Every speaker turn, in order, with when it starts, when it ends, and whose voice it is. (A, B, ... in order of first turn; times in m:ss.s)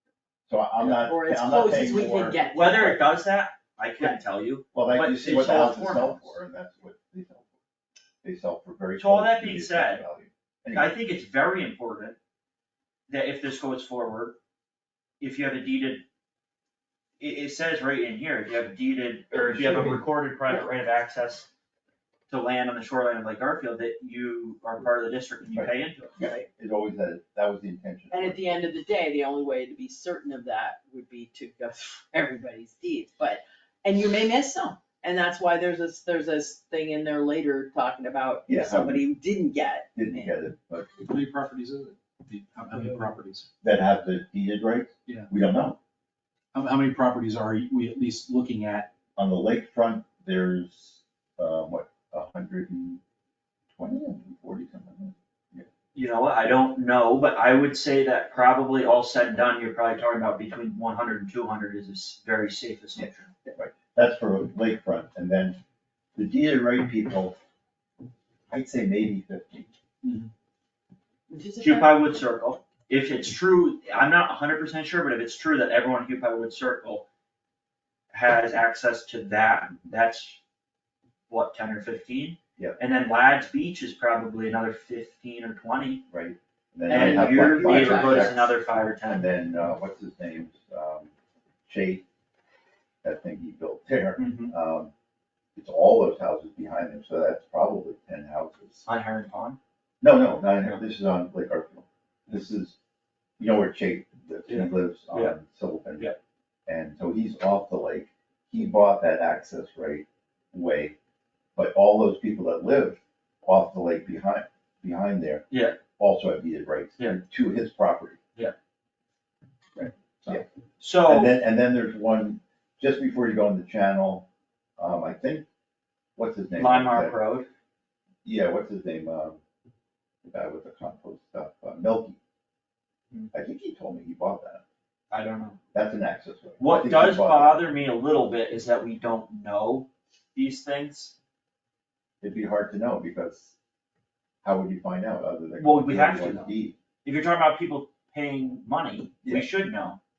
0:00.5-0:03.0 A
0:00.8-0:03.1 B
0:02.5-0:06.4 C
0:04.7-0:07.5 A
0:08.2-0:11.0 A
0:09.0-0:10.0 C
0:10.7-0:12.2 C
0:13.1-0:14.4 C
0:15.2-0:16.0 C
0:17.2-0:21.5 C
0:19.3-0:20.0 A
0:22.3-0:26.2 C
0:25.5-0:28.6 A
0:28.1-0:40.3 B
0:38.5-0:39.0 A
0:39.9-0:40.9 A
0:41.0-0:43.5 D
0:43.6-0:45.8 A
0:46.5-0:48.9 D
0:49.2-0:53.0 A
0:53.7-0:55.7 A
0:55.9-1:03.3 C
1:03.0-1:05.6 A
1:06.2-1:07.4 A
1:08.5-1:09.7 A
1:10.0-1:10.3 D
1:11.3-1:12.1 B
1:11.6-1:17.0 C
1:18.1-1:20.4 C
1:21.3-1:26.0 C
1:26.1-1:31.1 A
1:26.8-1:28.5 B
1:26.9-1:29.2 C
1:31.6-1:32.0 A
1:33.0-1:34.9 A
1:34.2-1:34.5 C
1:35.5-1:38.8 A
1:38.8-1:39.6 C
1:40.0-1:42.8 A
1:43.4-1:51.0 A
1:44.5-1:45.3 C
1:51.6-1:55.4 A
1:55.5-1:55.8 C
1:56.0-1:58.2 A
2:00.3-2:01.3 C
2:01.0-2:05.4 A
2:06.2-2:07.1 A
2:06.6-2:07.5 C
2:08.2-2:09.4 A
2:10.2-2:12.2 A
2:13.3-2:14.6 A
2:15.1-2:15.6 C
2:15.7-2:17.6 A
2:16.6-2:21.1 C
2:22.2-2:23.5 A
2:24.4-2:26.8 A
2:25.6-2:26.5 C
2:27.0-2:30.0 C